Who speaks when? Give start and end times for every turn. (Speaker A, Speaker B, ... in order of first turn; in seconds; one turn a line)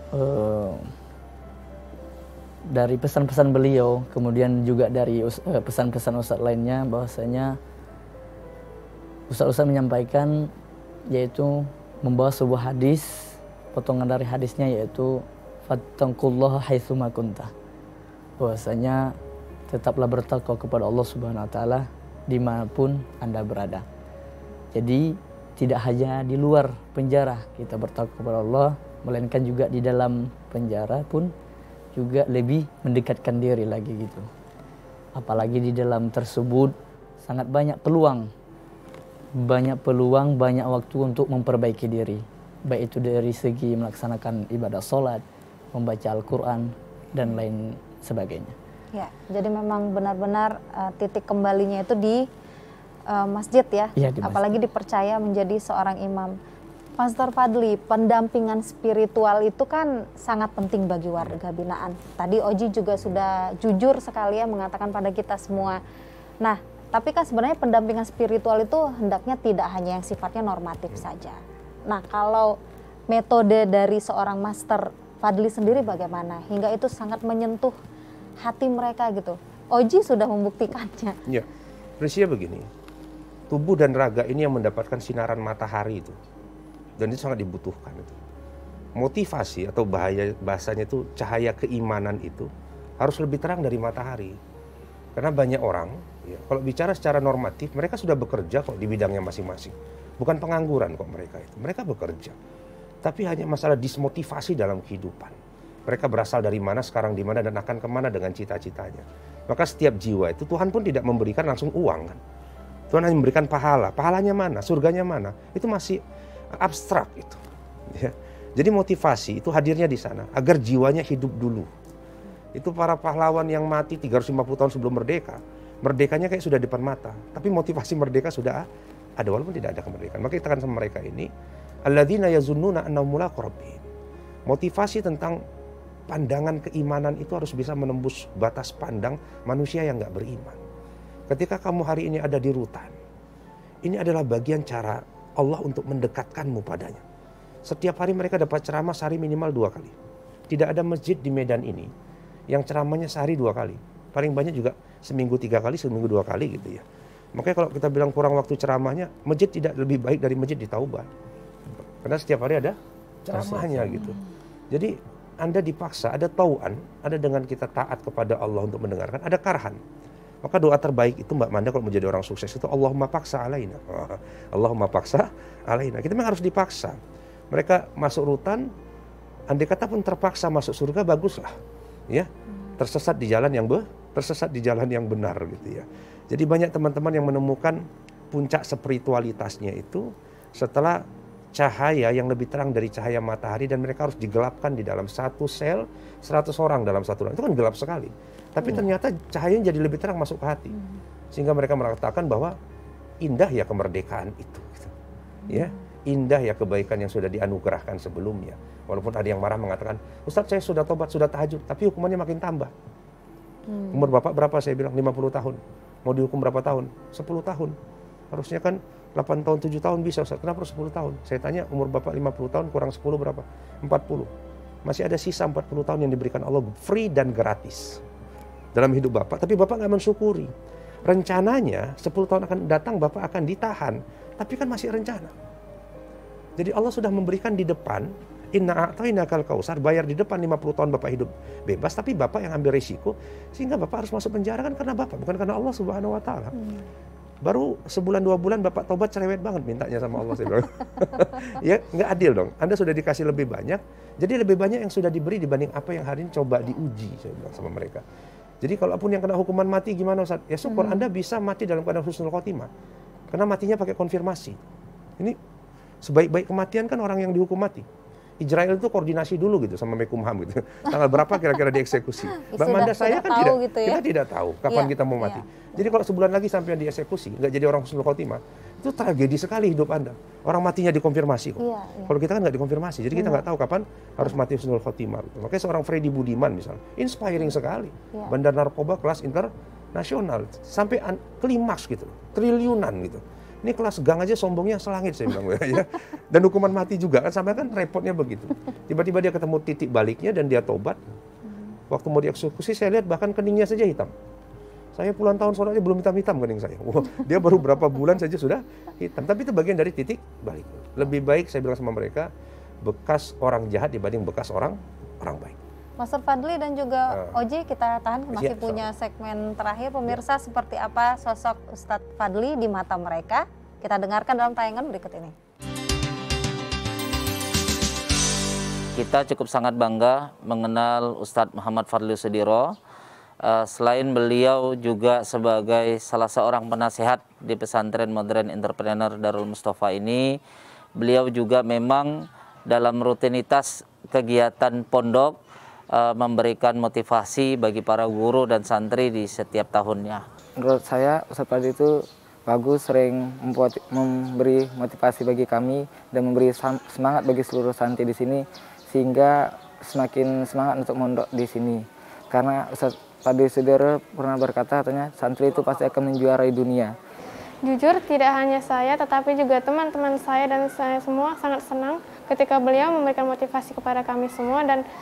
Speaker A: 0.1-0.9
Speaker A: 2.7-7.6
Speaker A: 9.3-10.5
Speaker A: 11.1-17.5
Speaker A: 18.4-19.2
Speaker A: 19.7-23.9
Speaker A: 24.7-31.3
Speaker A: 31.9-34.3
Speaker A: 35.1-38.3
Speaker A: 39.4-45.2
Speaker A: 45.7-48.5
Speaker B: 48.9-52.3
Speaker B: 53.1-56.4
Speaker A: 54.0-54.6
Speaker B: 57.0-65.8
Speaker B: 66.4-72.6
Speaker B: 73.1-77.8
Speaker B: 78.4-81.2
Speaker C: 82.0-82.7
Speaker C: 83.5-86.2
Speaker C: 87.0-88.2
Speaker C: 89.0-94.4
Speaker C: 95.2-102.4
Speaker C: 103.0-112.2
Speaker C: 112.9-116.0
Speaker C: 116.5-121.7
Speaker C: 122.5-128.7
Speaker C: 129.2-131.3
Speaker C: 131.9-133.9
Speaker C: 134.5-135.4
Speaker C: 136.1-140.6
Speaker C: 141.3-143.0
Speaker C: 143.8-147.0
Speaker C: 147.7-149.9
Speaker C: 150.5-151.9
Speaker C: 152.5-156.8
Speaker C: 157.3-161.1
Speaker C: 162.0-164.2
Speaker A: 163.5-164.0
Speaker C: 164.7-169.8
Speaker C: 170.4-177.0
Speaker C: 177.5-178.7
Speaker C: 179.5-181.6
Speaker C: 182.1-191.0
Speaker C: 191.5-200.8
Speaker B: 198.6-198.9
Speaker C: 201.3-202.6
Speaker C: 203.2-204.9
Speaker B: 205.5-205.8
Speaker C: 205.5-212.7
Speaker B: 213.7-214.1
Speaker C: 213.9-217.8
Speaker C: 218.3-224.3
Speaker C: 224.8-228.0
Speaker C: 228.8-230.5
Speaker C: 231.1-235.3
Speaker C: 236.6-246.6
Speaker C: 247.4-258.0
Speaker C: 258.6-262.7
Speaker B: 260.7-261.0
Speaker C: 263.3-264.6
Speaker C: 266.0-267.9
Speaker C: 268.4-301.0
Speaker B: 272.5-274.0
Speaker B: 274.7-275.9
Speaker B: 281.6-282.1
Speaker B: 283.1-283.5
Speaker B: 301.5-301.8
Speaker C: 301.9-304.1
Speaker C: 304.9-312.3
Speaker C: 312.8-315.6
Speaker B: 316.0-325.4
Speaker C: 317.1-317.4
Speaker C: 318.3-318.9
Speaker D: 329.0-332.8
Speaker D: 333.4-340.4
Speaker D: 341.0-345.4
Speaker D: 345.9-350.2
Speaker E: 350.6-366.9
Speaker F: 367.6-374.8